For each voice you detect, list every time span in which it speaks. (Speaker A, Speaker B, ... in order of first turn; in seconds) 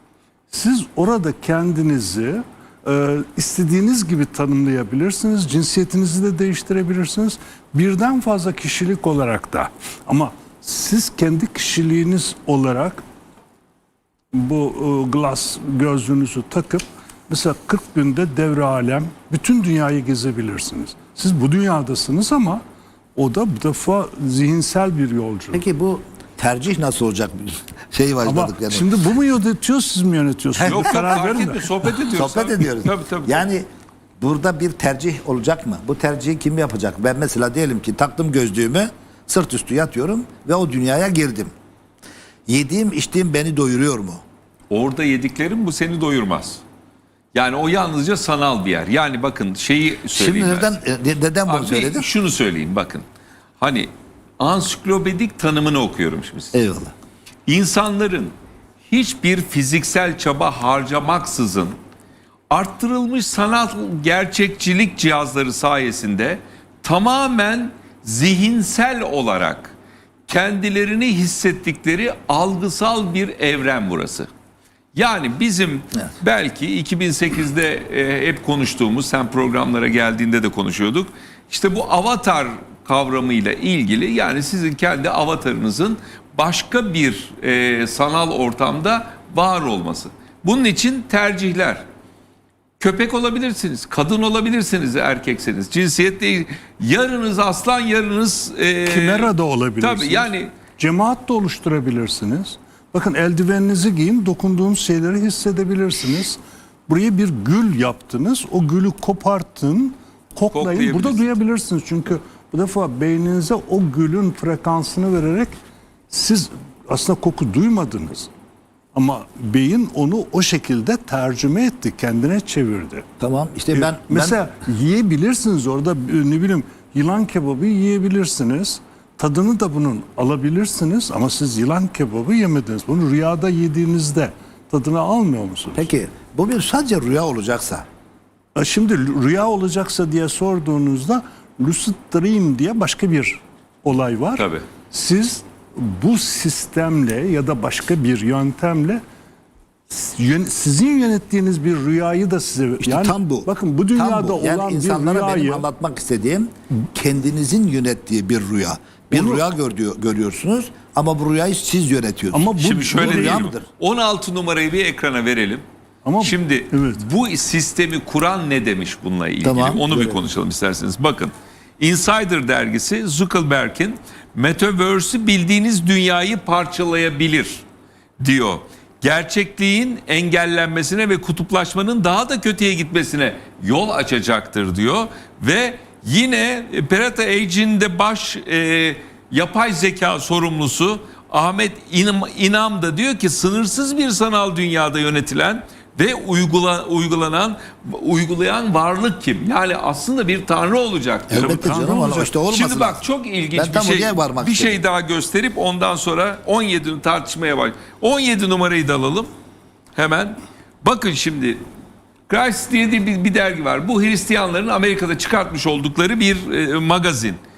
Speaker A: 0.5-13.0, 14.3-22.6, 23.1-25.6, 28.2-31.9, 98.8-115.6, 116.1-118.3, 118.9-123.0, 123.7-135.9, 138.5-149.0, 149.9-155.7, 159.1-159.5, 162.3-163.5, 166.0-167.0, 201.3-202.3
Speaker B: 25.5-28.9, 30.6-31.0, 32.1-33.6, 34.2-41.5, 42.5-44.2, 50.1-52.1, 56.5-56.9, 123.2-124.4, 135.7-137.8, 152.8-163.7, 169.4-170.2, 201.3-204.8
Speaker C: 30.6-33.5, 44.7-46.6, 47.3-50.8, 51.5-53.0, 53.6-53.9, 54.4-56.5, 57.5-58.3, 58.9-61.8, 62.5-69.7, 70.3-74.3, 74.9-91.8, 92.8-100.5, 110.5-111.3, 144.4-144.7, 162.6-165.6, 166.2-177.6, 178.2-201.8, 202.4-209.3, 209.9-211.6, 212.3-217.4